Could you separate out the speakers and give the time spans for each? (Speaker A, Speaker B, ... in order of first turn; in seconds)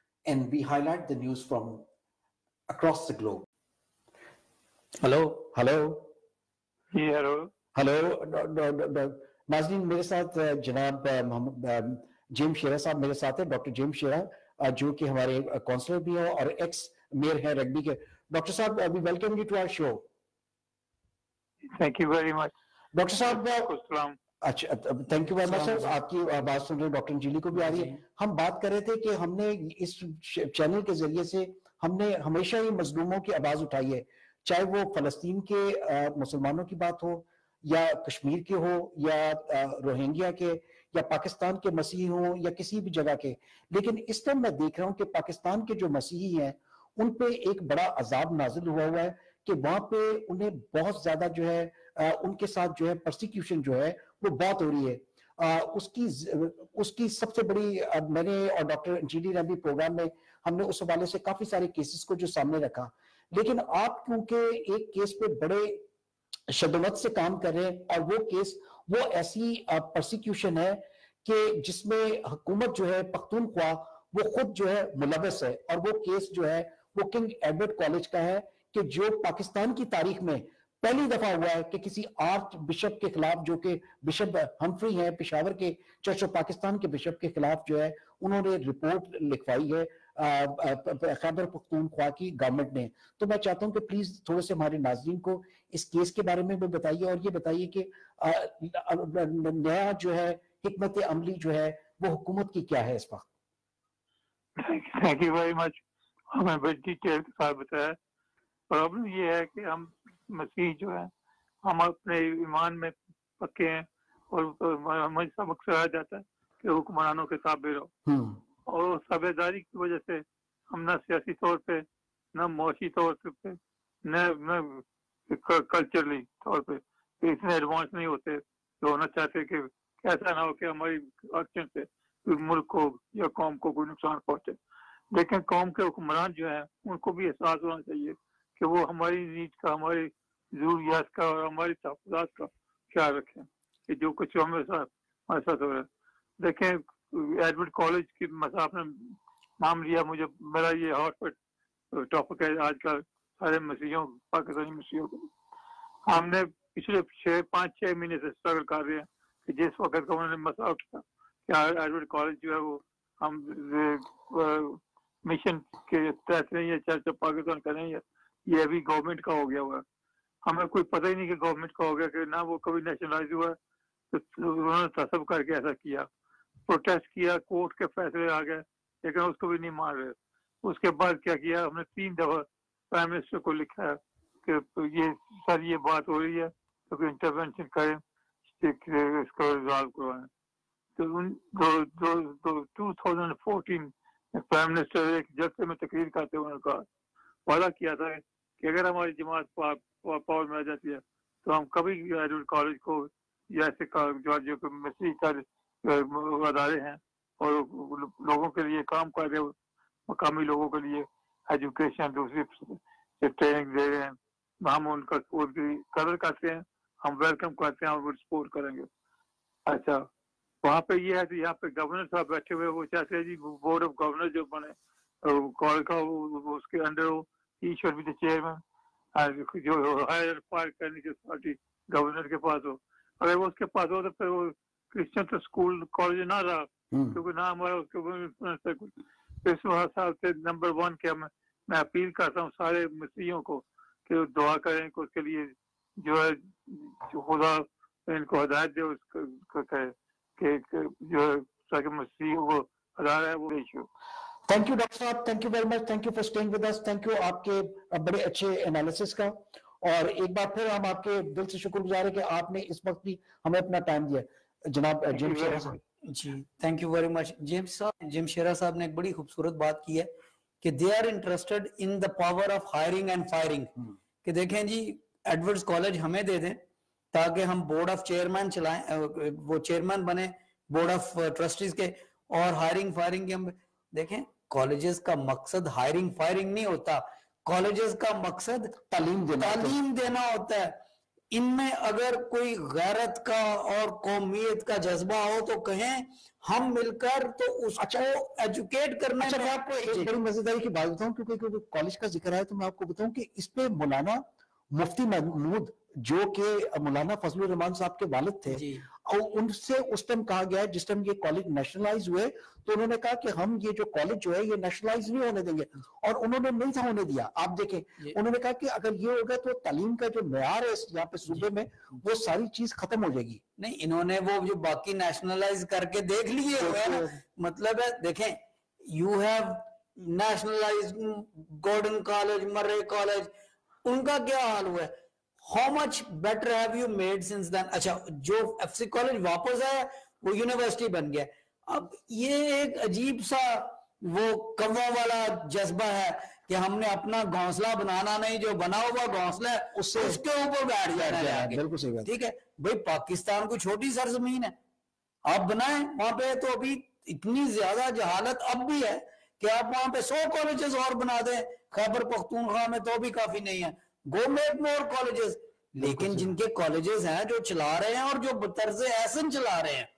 Speaker A: 0.2-1.9, 2.7-3.4, 5.5-6.1, 7.7-20.1, 22.9-23.7, 24.4-65.8, 66.5-103.3, 118.0-118.4, 236.9-237.2, 254.5-265.8, 288.8-289.8, 297.8-298.1, 299.2-323.4, 326.6-327.2, 349.7-350.2, 350.9-352.1, 365.8-366.3
Speaker B: 5.0-5.4, 25.4-25.9, 27.5-27.9, 266.1-273.7, 274.2-288.7, 289.4-290.8, 291.3-300.1, 308.5-308.8, 323.6-333.3, 333.8-354.5, 355.2-369.9
Speaker C: 6.9-7.5, 21.7-22.5, 23.3-24.2, 104.6-105.8, 106.3-108.0, 108.7-111.1, 111.6-117.9, 118.7-134.6, 135.1-145.9, 146.4-151.3, 151.9-155.3, 156.1-169.8, 170.4-173.6, 174.1-176.1, 176.7-188.0, 188.6-190.3, 190.9-196.8, 197.4-209.5, 210.1-218.9, 219.7-220.1, 220.6-228.6, 229.1-253.9, 265.1-265.8